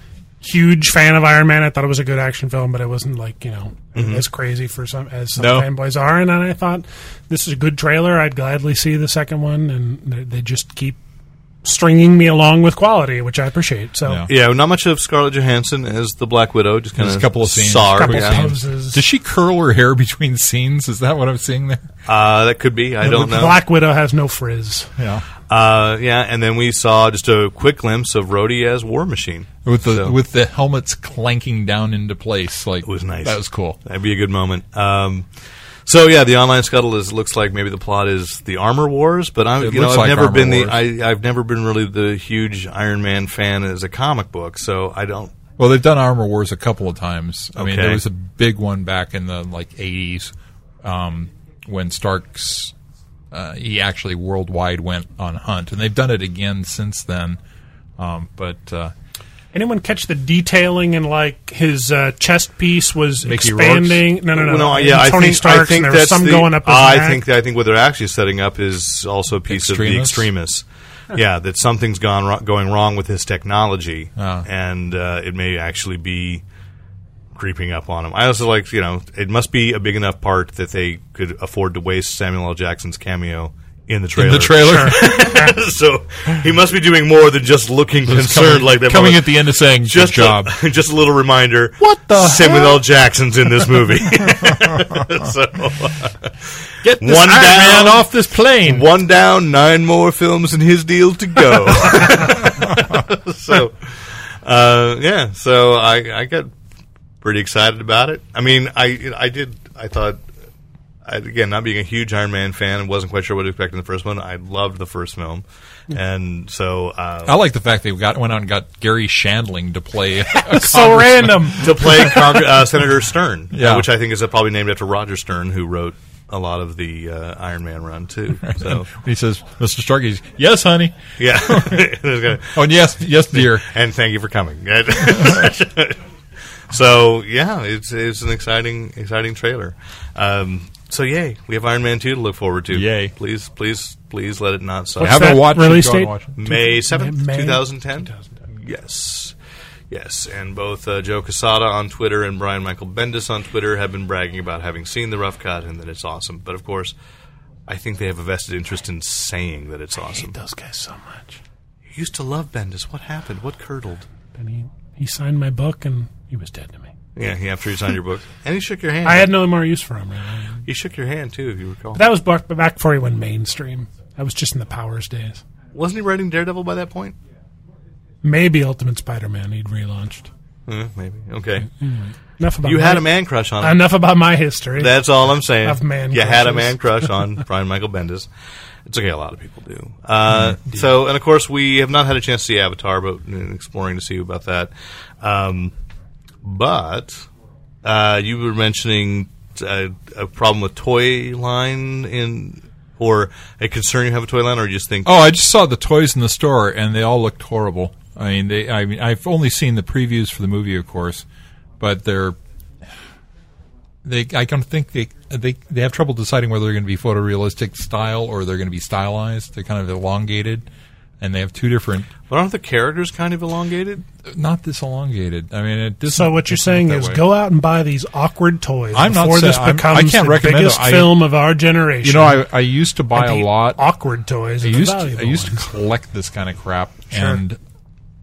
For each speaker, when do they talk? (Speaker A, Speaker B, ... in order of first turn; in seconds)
Speaker A: 0.4-11.0, 11.6-14.2, 17.9-19.0, 23.0-24.9, 59.5-67.2, 84.8-85.5, 91.8-92.8, 120.3-122.1, 145.0-148.4, 160.0-161.4, 164.4-166.9, 169.0-170.6, 171.9-175.4, 178.2-180.3, 181.8-187.0, 226.1-232.5, 233.1-235.7, 237.1-237.4
Speaker B: 3.9-4.2, 14.3-18.4, 22.1-23.6, 25.5-30.1, 32.9-35.3, 35.9-45.3, 47.5-48.0, 64.3-76.4, 77.3-96.3, 96.9-98.1, 98.6-106.5, 107.2-110.2, 111.0-117.4, 121.6-128.9, 131.2-132.6, 133.3-136.0, 136.7-145.6, 146.4-149.3, 149.9-156.9, 157.7-160.3, 161.9-164.1, 167.2-169.3, 170.7-172.1, 175.7-177.1, 180.7-181.7, 182.6-183.8, 184.8-188.3, 188.9-195.7, 196.4-197.2, 197.8-205.2, 222.3-224.0
Speaker C: 5.4-5.7, 16.9-21.9, 25.0-25.2, 29.6-33.8, 39.6-40.8, 45.6-52.7, 53.3-57.4, 58.0-58.9, 63.2-64.1, 69.5-70.3, 74.2-74.5, 84.2-85.4, 88.0-90.5, 96.8-98.9, 117.2-122.3, 123.5-123.9, 128.4-131.9, 132.4-133.7, 135.1-135.4, 142.7-143.1, 145.0-146.4, 205.1-211.2, 211.8-212.4, 214.0-220.7, 221.2-222.1, 224.2-227.2, 228.9-231.2, 232.0-233.8, 234.6-237.6